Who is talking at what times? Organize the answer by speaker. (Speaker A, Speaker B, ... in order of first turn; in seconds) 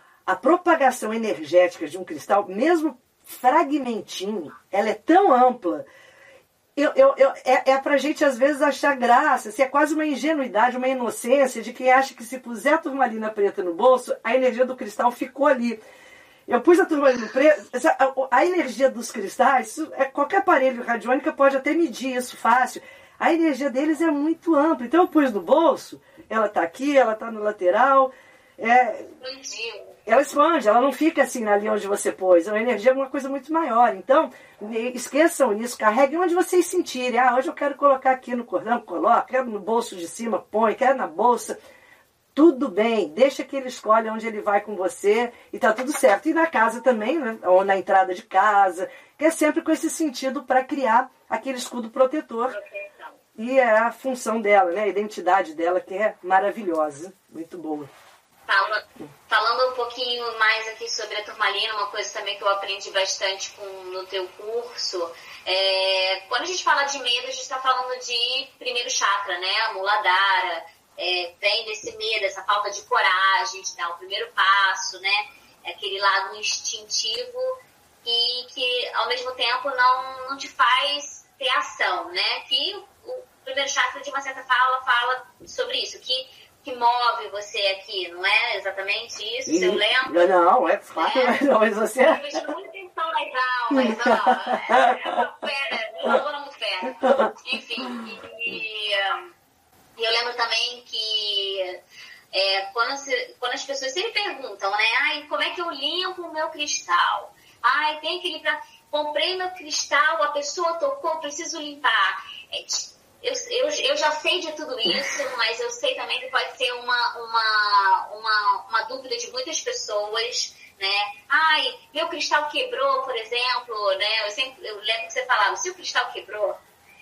Speaker A: 0.3-5.9, 6.8-15.8, 16.5-29.1, 30.1-41.6, 42.4-52.6, 53.4-57.9, 89.5-92.3, 93.7-95.2, 97.0-97.3
Speaker B: 29.2-29.9, 52.5-53.1, 58.5-90.3, 91.0-91.4, 92.0-99.3, 100.0-101.8, 102.3-126.6